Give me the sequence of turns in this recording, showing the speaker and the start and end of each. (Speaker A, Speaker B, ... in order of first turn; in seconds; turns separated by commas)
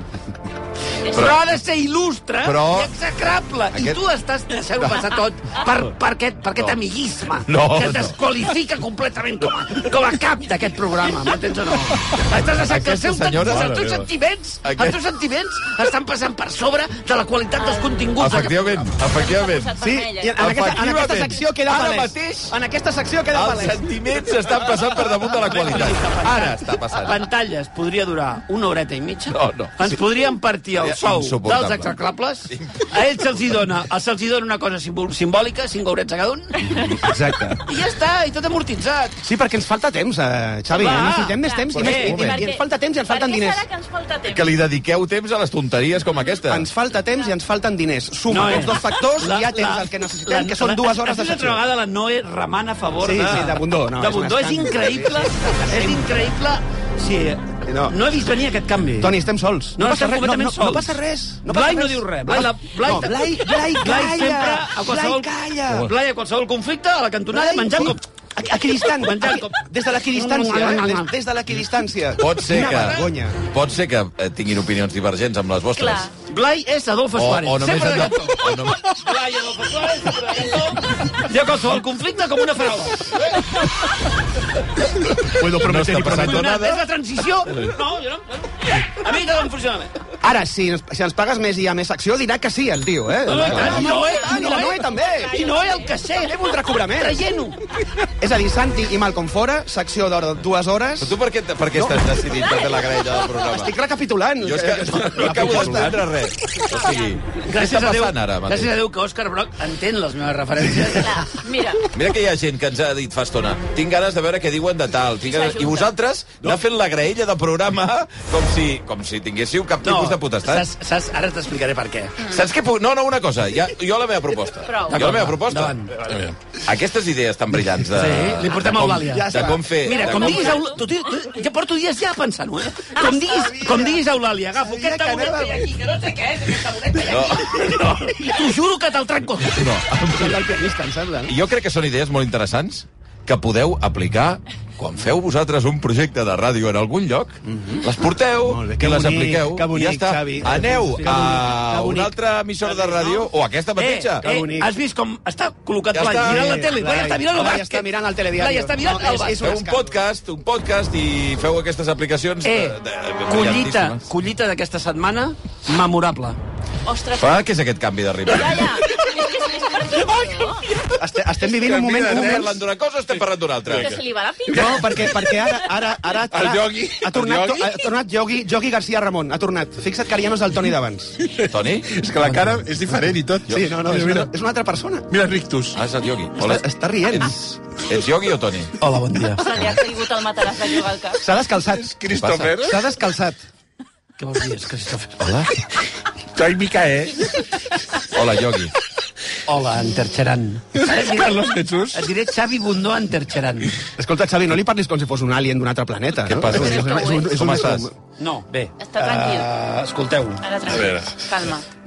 Speaker A: 1.1-18.7, Speaker B: 2.4-3.0, Speaker B: 3.7-4.0, Speaker B: 7.5-8.2, Speaker B: 12.5-13.8, Speaker C: 13.5-14.1, Speaker B: 14.6-15.1, Speaker D: 17.6-20.5, Speaker B: 18.2-19.7, Speaker E: 19.8-23.9, Speaker B: 20.4-22.6, Speaker B: 23.3-27.2, Speaker A: 25.4-36.8, Speaker B: 29.3-30.0, Speaker B: 30.8-32.0, Speaker B: 32.5-33.6, Speaker E: 36.7-37.6, Speaker A: 37.6-39.2, Speaker E: 39.2-43.6, Speaker A: 40.7-42.0, Speaker D: 41.4-44.5, Speaker B: 41.7-42.4, Speaker B: 44.3-46.7, Speaker E: 46.5-51.6, Speaker A: 48.3-59.2, Speaker E: 53.0-56.1, Speaker E: 57.6-58.0, Speaker E: 59.0-65.9, Speaker A: 59.8-68.0, Speaker E: 67.3-73.4, Speaker A: 69.0-71.1, Speaker B: 72.2-76.1, Speaker D: 75.8-76.1, Speaker A: 76.3-83.2, Speaker B: 77.2-79.1, Speaker B: 85.0-86.8, Speaker E: 85.3-86.5, Speaker A: 86.0-90.0, Speaker E: 90.2-95.5, Speaker A: 93.3-96.4, Speaker B: 93.4-93.9, Speaker D: 93.8-96.0, Speaker E: 96.2-97.3, Speaker A: 96.9-97.6, Speaker E: 98.0-101.2, Speaker B: 101.0-103.8, Speaker E: 101.7-102.0, Speaker E: 103.4-106.0, Speaker B: 104.4-108.7, Speaker D: 106.7-107.2, Speaker A: 107.4-111.3, Speaker D: 111.0-111.9, Speaker B: 111.9-120.7, Speaker D: 115.2-115.9, Speaker A: 119.8-122.3, Speaker B: 122.2-125.8, Speaker D: 124.6-125.0, Speaker A: 124.9-126.0, Speaker C: 126.0-126.4, Speaker B: 126.6-130.6, Speaker A: 127.8-129.3, Speaker E: 129.0-129.8, Speaker D: 129.8-130.8, Speaker A: 129.8-139.7, Speaker E: 133.3-134.0, Speaker E: 134.6-135.7, Speaker B: 137.0-137.8, Speaker B: 139.5-140.5, Speaker E: 140.1-141.3, Speaker B: 141.3-154.3, Speaker E: 147.5-147.9, Speaker E: 148.4-152.1, Speaker E: 152.6-153.3, Speaker A: 153.8-159.4, Speaker E: 154.2-154.8, Speaker B: 155.9-156.6, Speaker E: 156.3-160.0, Speaker B: 159.4-164.0, Speaker A: 162.4-166.4, Speaker D: 166.9-167.5, Speaker B: 167.1-168.9, Speaker D: 168.3-170.7, Speaker E: 171.0-172.6, Speaker C: 171.4-172.5, Speaker B: 172.1-174.0, Speaker C: 173.7-175.3, Speaker D: 173.8-174.8, Speaker E: 174.5-181.2, Speaker C: 176.3-177.7, Speaker C: 181.2-184.3, Speaker B: 181.5-181.9, Speaker E: 183.5-185.1, Speaker C: 185.1-185.8, Speaker B: 185.7-188.8, Speaker E: 186.4-187.6, Speaker A: 188.8-189.4, Speaker D: 189.3-191.2, Speaker E: 191.2-192.0, Speaker C: 191.7-192.8, Speaker B: 192.2-192.6, Speaker E: 192.6-193.4, Speaker A: 194.2-195.3, Speaker C: 196.3-197.4, Speaker B: 198.1-198.8, Speaker A: 199.5-203.8, Speaker C: 200.8-202.1, Speaker E: 204.0-207.9, Speaker C: 206.2-206.8, Speaker D: 206.5-207.5, Speaker B: 207.3-207.8, Speaker A: 208.2-210.4, Speaker D: 208.8-209.5, Speaker D: 210.4-211.7, Speaker C: 210.6-211.2